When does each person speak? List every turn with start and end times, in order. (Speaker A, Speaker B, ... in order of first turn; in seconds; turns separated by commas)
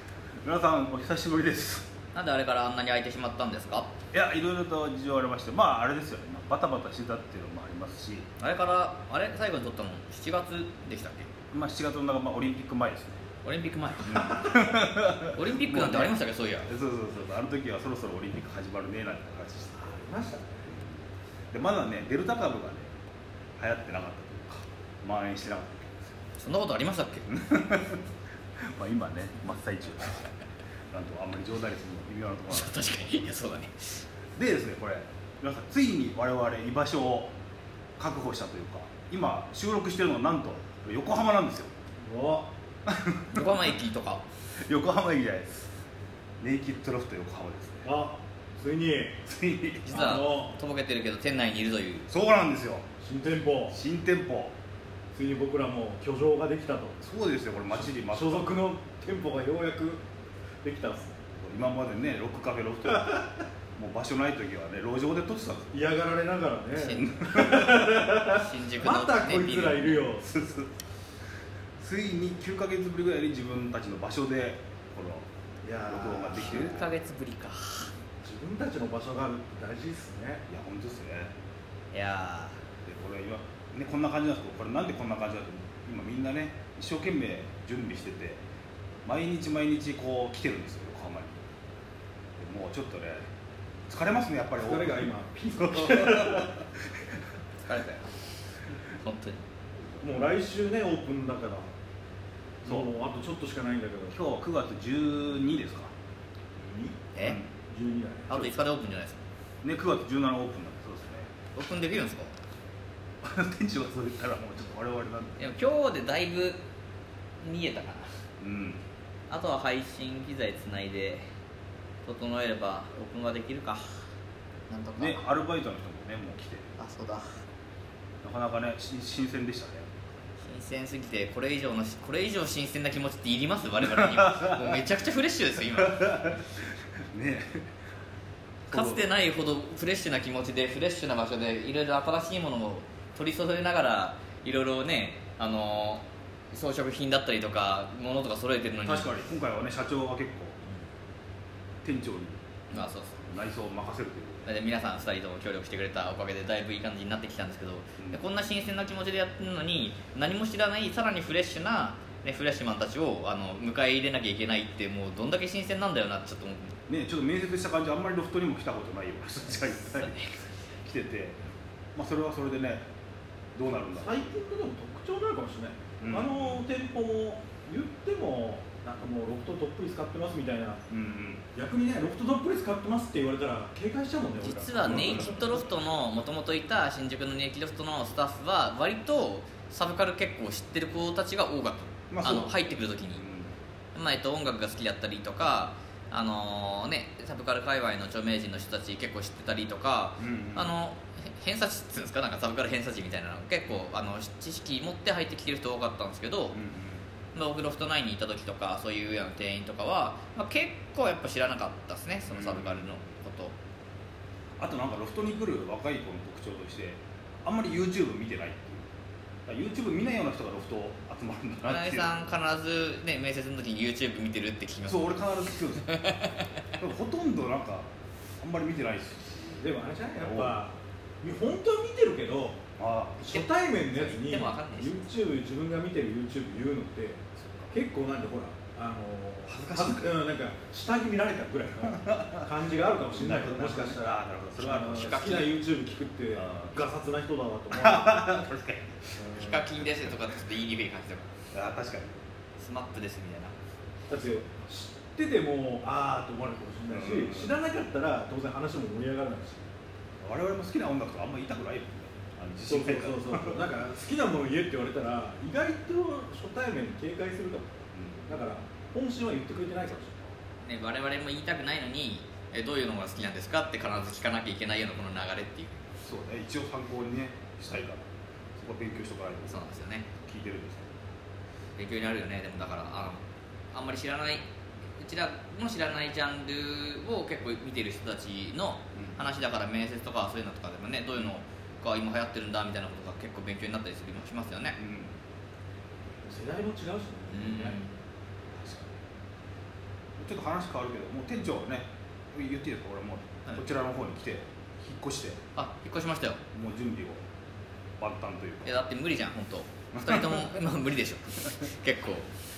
Speaker A: 0.4-1.9, Speaker B: 2.1-3.9, Speaker A: 4.1-8.3, Speaker B: 8.4-11.3, Speaker A: 11.5-13.2, Speaker B: 13.4-14.7, Speaker A: 14.0-20.1, Speaker B: 15.2-16.7, Speaker C: 19.7-20.7, Speaker A: 20.7-22.9, Speaker A: 23.6-26.1, Speaker B: 26.4-27.3, Speaker A: 27.3-28.0, Speaker A: 28.6-30.3, Speaker A: 30.9-33.3, Speaker B: 32.5-34.0, Speaker A: 34.4-37.3, Speaker A: 38.0-41.7, Speaker C: 42.0-42.5, Speaker A: 42.9-43.7, Speaker B: 43.3-44.2, Speaker A: 44.5-45.5, Speaker A: 46.4-47.9, Speaker C: 47.8-49.2, Speaker A: 49.2-49.9, Speaker B: 49.9-52.1, Speaker C: 49.9-50.6, Speaker A: 52.1-52.9, Speaker C: 53.0-53.8, Speaker A: 53.7-54.5, Speaker C: 55.1-57.0, Speaker A: 57.0-58.5, Speaker C: 57.7-60.0, Speaker C: 60.6-61.2, Speaker A: 61.3-65.8, Speaker C: 65.7-70.3, Speaker B: 66.7-70.1, Speaker A: 67.2-67.9, Speaker A: 70.2-70.7, Speaker A: 71.8-75.3, Speaker C: 75.6-76.9, Speaker A: 75.8-76.9, Speaker B: 76.4-77.9, Speaker C: 78.2-80.4, Speaker A: 80.5-81.3, Speaker B: 81.9-82.6, Speaker A: 82.8-88.4, Speaker A: 89.0-91.4, Speaker A: 92.4-93.3, Speaker A: 93.9-97.1, Speaker C: 94.5-96.6, Speaker B: 97.6-99.4, Speaker C: 100.0-101.7, Speaker C: 102.6-104.2, Speaker A: 102.6-102.9, Speaker A: 104.1-105.9, Speaker C: 106.5-107.0, Speaker A: 107.2-107.5, Speaker C: 107.7-108.5, Speaker B: 108.3-109.2, Speaker A: 109.6-111.3, Speaker B: 111.5-112.3, Speaker A: 113.2-115.4, Speaker B: 115.4-116.6, Speaker B: 117.4-118.1, Speaker A: 118.4-118.8, Speaker B: 119.3-121.2, Speaker B: 122.0-124.0, Speaker B: 124.7-125.3, Speaker A: 125.0-126.7, Speaker B: 126.8-127.4, Speaker A: 128.2-130.1, Speaker B: 130.4-136.4, Speaker A: 133.9-134.6, Speaker A: 135.8-137.7, Speaker B: 138.7-149.1, Speaker A: 138.7-139.1, Speaker A: 148.8-150.6, Speaker A: 151.8-152.4, Speaker B: 152.7-153.2, Speaker A: 153.2-154.5, Speaker B: 154.4-166.8, Speaker A: 158.0-158.2, Speaker A: 166.9-170.2, Speaker B: 169.8-170.3, Speaker A: 170.8-171.4, Speaker A: 171.9-172.8, Speaker A: 173.5-174.3, Speaker C: 174.0-180.8, Speaker A: 176.0-176.6, Speaker A: 180.9-181.4, Speaker C: 181.5-185.7, Speaker B: 184.4-193.2, Speaker A: 184.8-185.6, Speaker A: 192.1-193.6, Speaker B: 193.9-206.6, Speaker A: 200.2-200.7, Speaker A: 206.5-207.0, Speaker B: 207.3-213.5, Speaker A: 212.3-212.9, Speaker A: 214.6-218.9, Speaker A: 219.4-222.2, Speaker B: 221.7-226.3, Speaker A: 224.8-225.9, Speaker A: 226.8-229.7, Speaker C: 229.6-232.6, Speaker A: 230.2-230.6, Speaker A: 232.8-233.2, Speaker C: 233.2-248.3, Speaker B: 233.3-235.1, Speaker A: 239.5-240.2, Speaker A: 242.0-242.4, Speaker A: 243.0-245.5, Speaker B: 244.9-245.5, Speaker A: 246.3-246.8, Speaker A: 247.7-250.2, Speaker C: 249.2-249.6, Speaker B: 249.3-251.3, Speaker A: 251.5-252.2, Speaker B: 252.6-253.5, Speaker C: 254.1-259.6, Speaker A: 256.9-257.6, Speaker A: 260.2-263.7, Speaker C: 262.7-270.3, Speaker A: 267.9-268.3, Speaker B: 270.6-275.8, Speaker A: 276.0-280.9, Speaker B: 279.5-280.1, Speaker B: 281.8-283.2, Speaker B: 283.7-284.4, Speaker B: 285.0-294.8, Speaker A: 288.9-289.2, Speaker A: 294.8-295.1, Speaker C: 296.2-297.8, Speaker B: 297.3-297.9, Speaker A: 300.2-305.4, Speaker B: 305.5-306.4, Speaker A: 306.5-307.2, Speaker A: 308.0-308.8, Speaker B: 308.6-312.3, Speaker A: 309.9-310.5